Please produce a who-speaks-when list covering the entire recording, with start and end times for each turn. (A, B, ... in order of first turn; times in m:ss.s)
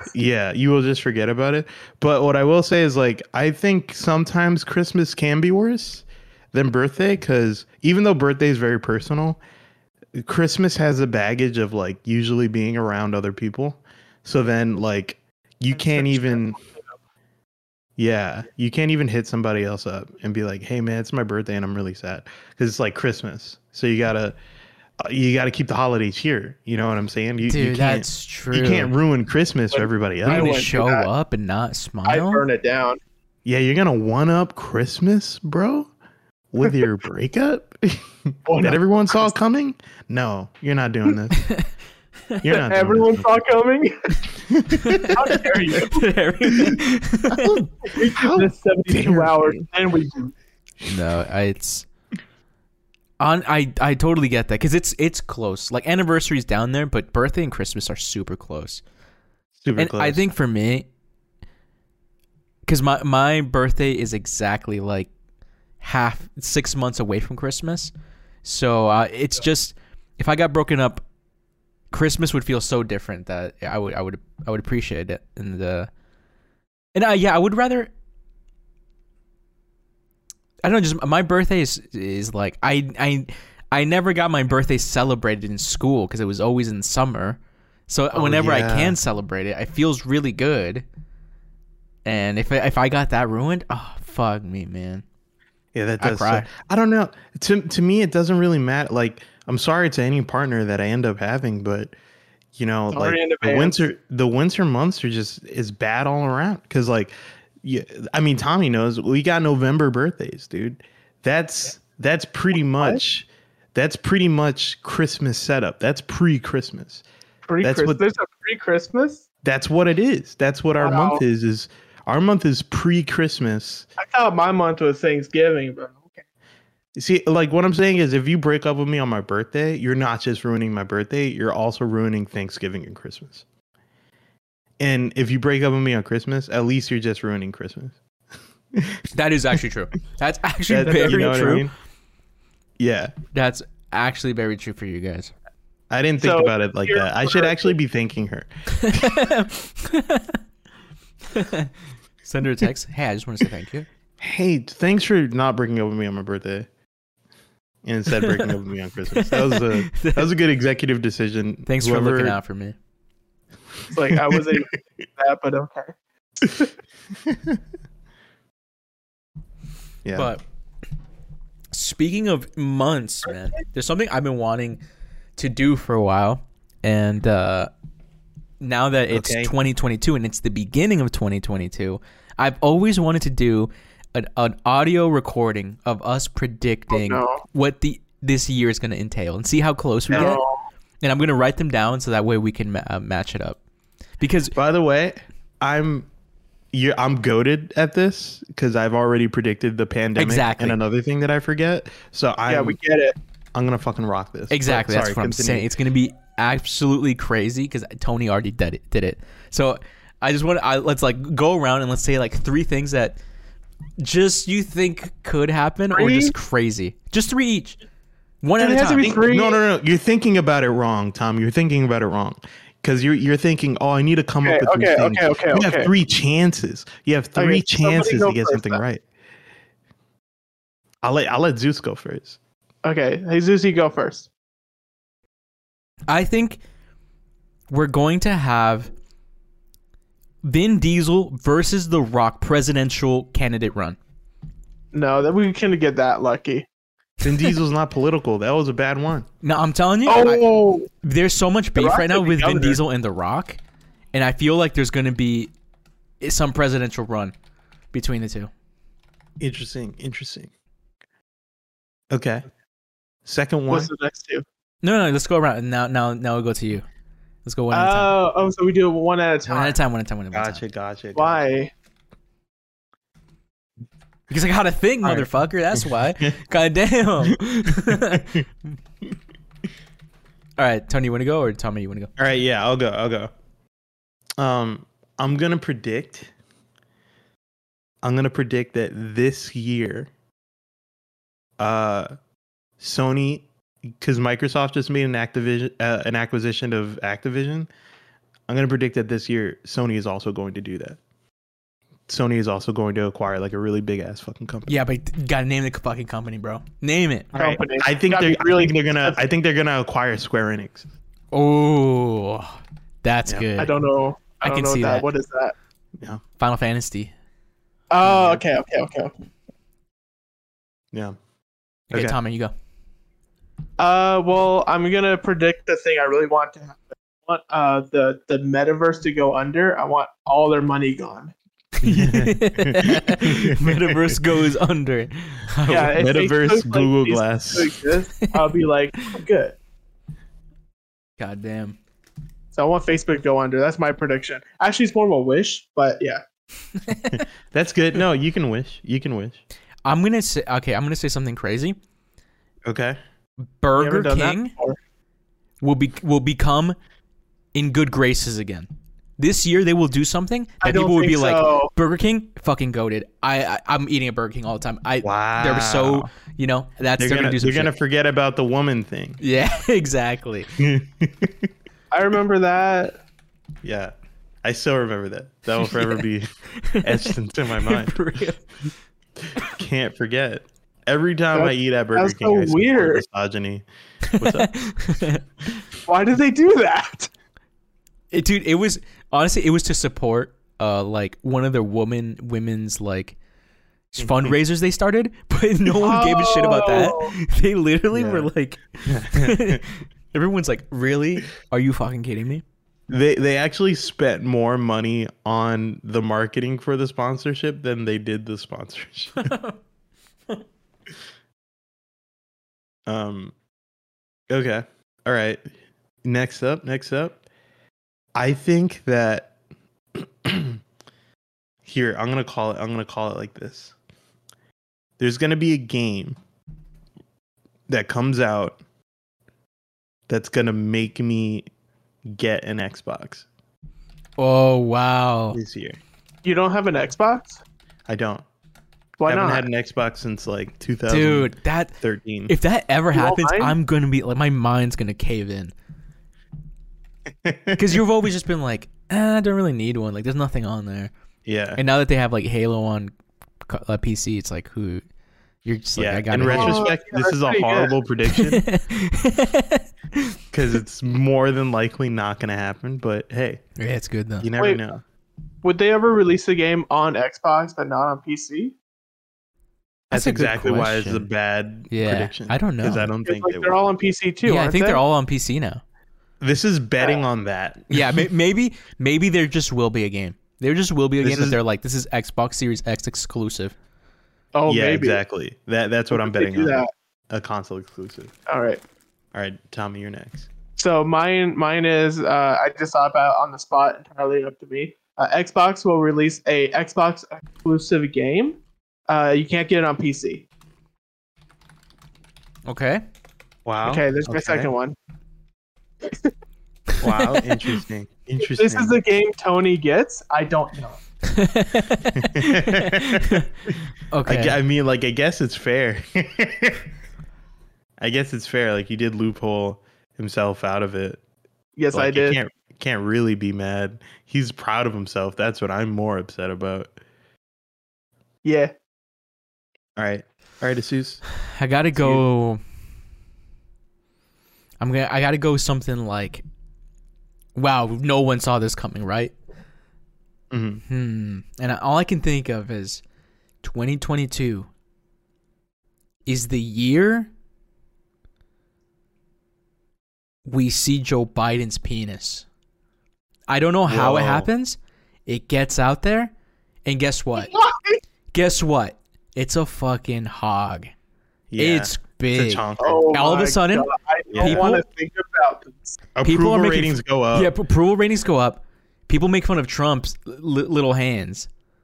0:00.1-0:09.4 A
0:10.2-0:16.6 A
0:15.8-0:16.6 B
0:18.0-0:24.4 A
0:25.0-0:30.6 A
0:27.5-0:28.9 C
0:29.7-0:31.1 B
0:30.2-0:32.4 C
0:32.1-0:33.0 B
0:33.4-0:35.9 A
0:36.5-0:41.5 A
0:38.5-0:39.3 B
0:41.4-0:41.7 C
0:42.4-0:43.3 A
0:42.4-0:44.2 B
0:44.5-0:45.1 A
0:44.7-0:45.2 C
0:45.1-0:46.0 B
0:45.8-0:47.7 C
0:47.3-0:49.6 A
0:47.9-0:50.3 B
0:50.8-0:51.9 C
0:53.2-0:58.8 C
0:59.6-1:00.3 A
0:59.8-1:00.9 C
1:02.7-1:05.1 C
1:05.8-1:07.9 C
1:08.4-1:11.0 C
1:11.9-1:15.9 C
1:17.0-1:17.9 C
1:20.6-1:30.8 C
1:28.1-1:29.0 A
1:32.0-1:35.0 C
1:35.7-1:41.9 A
1:36.0-1:36.5 C
1:42.6-1:57.0 A
1:42.9-1:43.9 B
1:57.5-1:59.2 B
1:57.6-1:58.0 A
1:59.4-2:03.9 A
2:00.8-2:01.2 B
2:04.0-2:06.2 B
2:07.0-2:13.4 A
2:14.8-2:18.0 A
2:18.7-2:19.0 A
2:19.1-2:21.7 C
2:20.7-2:21.7 A
2:20.9-2:21.4 B
2:22.8-2:23.1 A
2:23.3-2:25.3 C
2:25.9-2:29.1 A
2:26.2-2:27.7 B
2:28.7-2:30.4 C
2:31.3-2:31.7 C
2:32.2-2:33.9 C
2:34.2-2:36.7 A
2:37.8-2:42.4 A
2:38.1-2:38.5 C
2:39.1-2:40.3 C
2:41.7-2:42.8 C
2:43.9-2:46.0 B
2:44.1-2:44.6 A
2:46.4-2:46.7 A
2:47.3-2:47.6 A
2:50.0-2:50.3 A
2:50.1-2:50.4 C
2:51.7-2:54.8 C
2:55.4-2:57.7 C
2:58.6-3:10.4 C
2:59.1-2:59.5 A
3:06.9-3:07.4 B
3:10.1-3:10.6 B
3:11.0-3:13.6 C
3:14.2-3:14.6 C
3:14.6-3:16.1 A
3:16.7-3:22.8 A
3:20.2-3:20.8 C
3:22.5-3:23.2 B
3:23.6-3:25.7 A
3:24.5-3:33.2 C
3:34.0-3:37.8 C
3:35.9-3:36.3 B
3:38.4-3:39.1 C
3:38.6-3:39.6 B
3:39.0-3:49.0 A
3:44.4-3:45.9 B
3:47.4-3:48.8 B
3:51.0-3:52.4 A
3:52.8-3:54.3 B
3:56.1-3:56.6 C
3:57.7-3:58.9 C
4:00.4-4:04.0 C
4:04.9-4:06.7 B
4:07.2-4:09.3 A
4:09.4-4:10.4 C
4:10.1-4:10.9 B
4:11.0-4:13.6 C
4:11.8-4:12.8 B
4:14.1-4:15.5 C
4:16.2-4:17.3 C
4:17.9-4:18.5 C
4:19.4-4:20.5 A
4:22.1-4:22.4 A
4:23.3-4:23.9 A
4:23.7-4:24.4 B
4:24.8-4:26.8 C
4:27.4-4:28.1 C
4:27.7-4:29.8 B
4:29.5-4:30.6 C
4:30.3-4:31.4 A
4:31.2-4:31.7 B
4:34.3-4:38.4 C
4:35.0-4:36.3 A
4:37.3-4:38.4 A
4:40.6-4:42.1 C
4:42.2-4:43.3 A
4:44.4-4:46.3 A
4:48.0-4:50.1 A
4:51.6-4:52.1 A
4:52.8-4:53.5 A
4:54.0-4:57.7 A
4:58.5-5:01.0 A
5:02.1-5:04.8 A
5:04.7-5:07.3 C
5:07.3-5:10.9 A
5:07.4-5:09.2 B
5:11.3-5:13.7 C
5:13.6-5:15.6 B
5:14.4-5:15.1 C
5:16.4-5:17.1 C
5:17.9-5:19.1 B
5:18.0-5:18.4 A
5:20.9-5:21.2 A
5:21.9-5:22.2 A
5:21.9-5:22.5 C
5:23.8-5:31.3 B
5:31.8-5:36.0 C
5:31.8-5:34.2 A
5:35.7-5:39.6 B
5:35.7-5:37.8 A
5:41.2-5:41.8 C
5:42.5-5:46.2 B
5:46.8-5:47.2 C
5:47.1-5:49.4 A
5:49.8-5:51.8 C
5:52.7-5:53.0 A
5:53.6-5:54.5 C
5:53.8-5:54.8 B
5:55.6-5:56.8 C
5:57.5-6:07.7 C
6:00.6-6:01.7 B
6:05.0-6:06.1 A
6:07.0-6:09.2 A
6:09.2-6:10.5 C
6:10.6-6:11.5 A
6:11.9-6:13.0 B
6:13.6-6:13.9 A
6:14.4-6:16.3 A
6:16.6-6:18.4 C
6:16.8-6:18.0 A
6:19.2-6:23.6 A
6:21.3-6:23.0 B
6:24.0-6:25.6 C
6:24.2-6:24.5 A
6:25.9-6:27.1 B
6:28.1-6:33.2 C
6:33.9-6:42.4 C
6:34.0-6:34.4 A
6:35.8-6:37.2 B
6:37.9-6:38.3 A
6:38.9-6:39.6 A
6:42.9-6:49.3 A
6:49.2-6:49.6 C
6:52.9-6:53.3 A
6:54.3-6:55.4 A
6:56.0-6:57.2 A
6:58.2-6:59.3 A
7:00.0-7:00.6 A
7:01.6-7:03.8 A
7:05.0-7:06.2 A
7:07.7-7:08.6 A
7:10.1-7:11.5 A
7:12.1-7:13.3 A
7:14.2-7:15.4 C
7:15.3-7:15.8 A
7:16.2-7:17.4 B
7:17.9-7:18.2 A
7:19.0-7:19.5 B
7:19.1-7:22.3 A
7:20.9-7:21.7 C
7:22.3-7:25.5 C
7:22.9-7:23.6 B
7:27.2-7:27.8 A
7:27.6-7:30.9 C
7:31.2-7:31.6 A
7:31.6-7:32.9 C
7:33.4-7:34.8 C
7:35.4-7:36.7 C
7:35.8-7:38.4 A
7:36.2-7:37.8 B
7:38.1-7:40.2 C
7:40.3-7:43.4 A
7:43.6-7:44.3 C
7:44.2-7:44.8 A
7:45.4-7:48.6 B
7:49.9-7:51.1 C
7:49.9-7:53.6 A
7:51.7-7:52.9 C
7:53.0-7:54.8 B
7:54.2-7:55.6 C
7:56.2-7:58.1 A
7:57.7-8:03.6 C
8:01.0-8:01.4 A
8:04.3-8:05.0 B
8:04.5-8:08.1 A
8:05.9-8:06.7 B
8:08.3-8:08.6 B
8:09.1-8:10.3 A
8:10.6-8:20.3 B
8:22.5-8:22.8 C
8:23.4-8:24.5 A
8:23.7-8:24.8 B
8:25.9-8:26.1 B
8:26.8-8:28.8 A
8:26.8-8:27.2 C
8:28.2-8:30.8 B
8:31.0-8:33.3 C
8:32.0-8:33.2 A
8:33.9-8:34.4 C
8:34.1-8:36.7 A
8:37.8-8:41.0 A
8:41.6-8:42.2 B
8:41.7-8:46.7 A
8:48.2-8:48.5 B
8:49.8-8:51.0 A
8:51.3-8:52.4 C
8:51.8-8:52.0 A
8:54.6-8:56.2 C
8:57.4-8:59.1 C
9:00.3-9:00.6 A
9:00.7-9:02.8 C
9:03.4-9:04.5 C
9:06.1-9:07.1 C
9:10.3-9:12.3 C
9:13.3-9:16.1 C
9:13.7-9:14.3 A
9:16.7-9:17.3 C
9:17.2-9:17.8 B
9:18.1-9:20.7 C
9:21.3-9:22.9 A
9:21.4-9:23.7 C
9:22.6-9:25.8 B
9:24.1-9:24.4 A
9:24.2-9:24.6 C
9:26.0-9:27.3 A
9:26.0-9:31.3 C